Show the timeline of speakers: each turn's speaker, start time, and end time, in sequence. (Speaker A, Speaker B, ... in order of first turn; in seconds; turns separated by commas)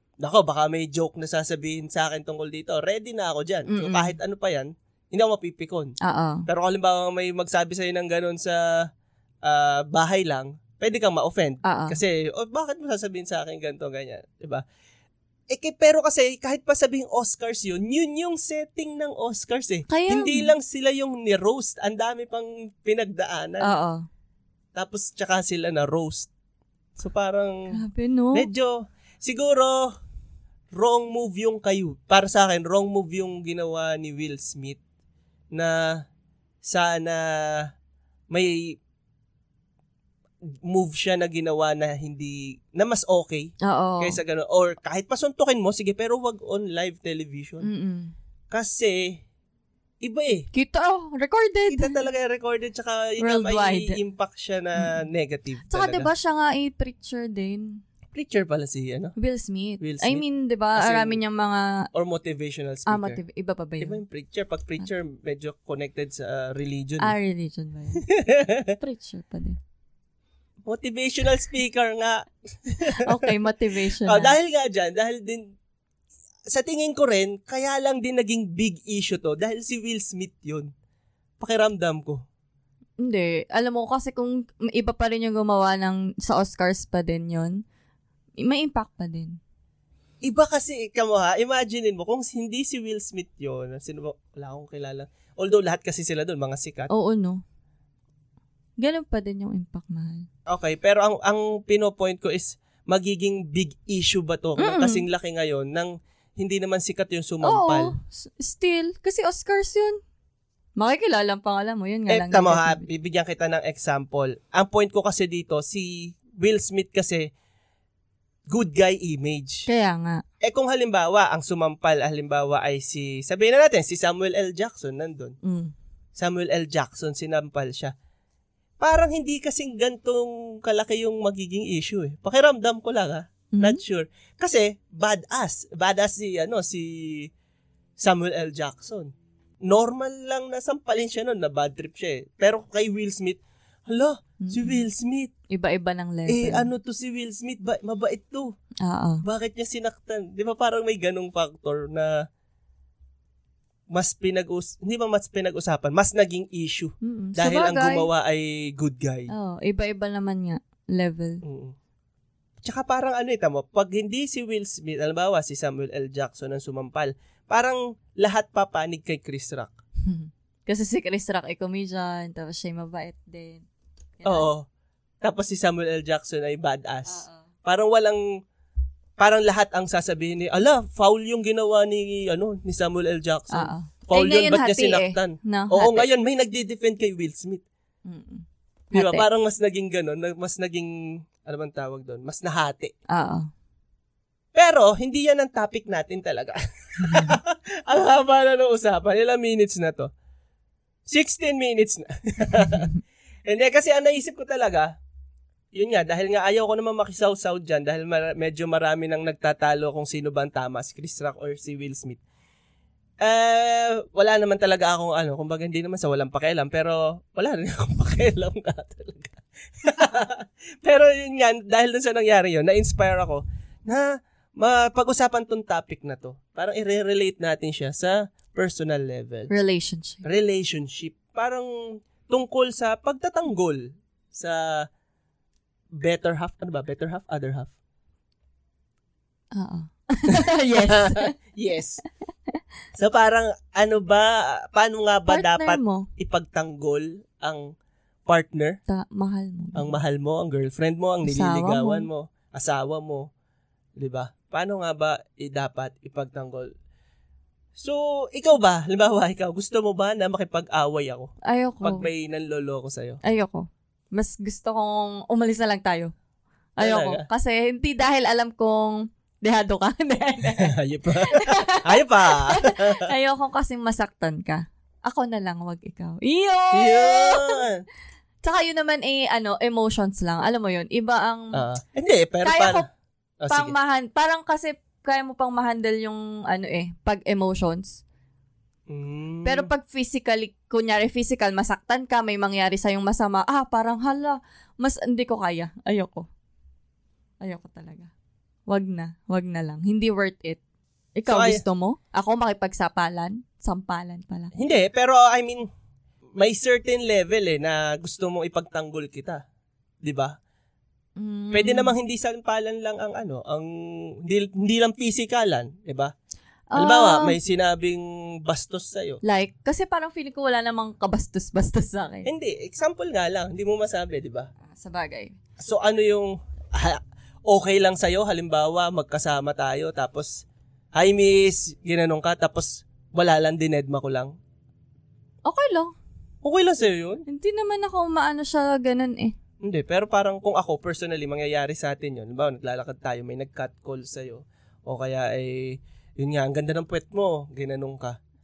Speaker A: 0.2-5.9, Speaker B: 3.7-4.2, Speaker B: 6.0-6.5, Speaker A: 6.5-8.8, Speaker A: 9.4-14.6, Speaker B: 11.6-12.0, Speaker A: 15.5-23.7, Speaker B: 19.9-20.5, Speaker B: 23.6-24.1, Speaker A: 24.8-26.3, Speaker A: 26.9-27.7, Speaker B: 27.7-28.5, Speaker A: 28.3-29.9, Speaker A: 30.7-34.8, Speaker A: 35.5-36.0, Speaker A: 36.6-37.7, Speaker A: 38.3-38.8, Speaker A: 40.6-47.7, Speaker B: 43.6-44.2, Speaker B: 47.6-48.1, Speaker A: 48.5-49.2, Speaker A: 50.0-50.5, Speaker B: 50.5-52.0, Speaker A: 51.7-56.1, Speaker B: 53.2-54.0, Speaker B: 55.7-57.8, Speaker A: 58.1-59.1, Speaker B: 59.2-61.9, Speaker A: 59.8-60.2, Speaker A: 60.7-61.2, Speaker A: 61.9-63.2, Speaker B: 62.9-64.0, Speaker A: 63.8-67.1, Speaker B: 67.0-68.0, Speaker A: 68.0-68.8, Speaker B: 68.8-69.6, Speaker A: 70.7-73.3, Speaker B: 73.0-74.3, Speaker A: 73.9-75.5, Speaker A: 76.5-80.7, Speaker A: 81.4-82.2, Speaker B: 83.0-87.6, Speaker B: 88.4-89.4, Speaker A: 90.2-96.9, Speaker B: 96.9-97.4, Speaker B: 98.8-100.3, Speaker A: 100.5-107.9, Speaker B: 104.6-105.0, Speaker B: 107.4-110.0, Speaker B: 110.8-112.9, Speaker A: 112.1-117.3, Speaker A: 118.5-119.7, Speaker B: 119.7-120.2, Speaker A: 120.4-125.3, Speaker B: 125.4-125.7, Speaker A: 126.2-127.9, Speaker A: 128.8-137.3, Speaker B: 133.5-133.8, Speaker A: 138.0-139.1, Speaker A: 139.7-145.3, Speaker B: 144.4-144.8, Speaker B: 145.5-146.7, Speaker A: 146.3-148.5, Speaker B: 148.8-149.2, Speaker A: 149.2-152.1, Speaker A: 153.9-159.3, Speaker B: 157.0-158.1, Speaker B: 159.3-161.4, Speaker A: 161.4-161.7, Speaker A: 162.6-169.7, Speaker B: 170.0-173.6, Speaker B: 174.2-174.5, Speaker A: 174.2-174.6, Speaker A: 175.2-178.2, Speaker B: 177.1-177.4, Speaker A: 179.2-187.6, Speaker B: 183.5-186.1, Speaker B: 188.0-189.2, Speaker A: 188.9-192.9, Speaker B: 193.1-193.5, Speaker A: 194.5-200.1, Speaker B: 197.0-197.4, Speaker A: 201.1-202.9, Speaker A: 203.5-204.9, Speaker A: 205.7-212.2, Speaker A: 213.2-229.5, Speaker B: 229.5-230.2, Speaker A: 230.2-234.9, Speaker A: 235.9-237.7, Speaker B: 239.5-241.3, Speaker A: 240.3-242.0, Speaker A: 242.9-247.7, Speaker B: 245.3-246.1, Speaker A: 248.2-248.8, Speaker B: 248.9-249.9, Speaker A: 249.7-253.3, Speaker B: 251.2-252.1, Speaker A: 254.0-256.7, Speaker A: 257.8-261.3, Speaker B: 261.4-262.1, Speaker A: 261.8-263.2, Speaker B: 263.2-266.1, Speaker B: 266.8-270.7, Speaker A: 266.8-267.2, Speaker A: 270.6-273.1, Speaker B: 271.2-277.6, Speaker A: 276.7-277.8, Speaker B: 278.4-281.6, Speaker A: 281.5-282.8, Speaker B: 282.4-282.8, Speaker A: 283.4-283.7, Speaker B: 283.5-288.0, Speaker A: 288.9-289.7, Speaker B: 289.4-296.2, Speaker B: 297.4-298.1, Speaker B: 298.7-300.6, Speaker B: 301.1-304.5, Speaker A: 301.2-301.6, Speaker A: 304.5-305.7, Speaker A: 306.4-309.4, Speaker A: 310.0-310.4, Speaker B: 311.2-311.9, Speaker A: 311.5-313.7, Speaker A: 314.2-316.1, Speaker B: 316.7-317.4, Speaker A: 316.7-319.2, Speaker B: 319.2-322.3, Speaker A: 322.2-324.5, Speaker B: 324.6-325.4, Speaker A: 325.6-334.3, Speaker B: 335.4-335.9, Speaker A: 336.4-337.2, Speaker B: 337.3-339.3, Speaker A: 339.6-348.2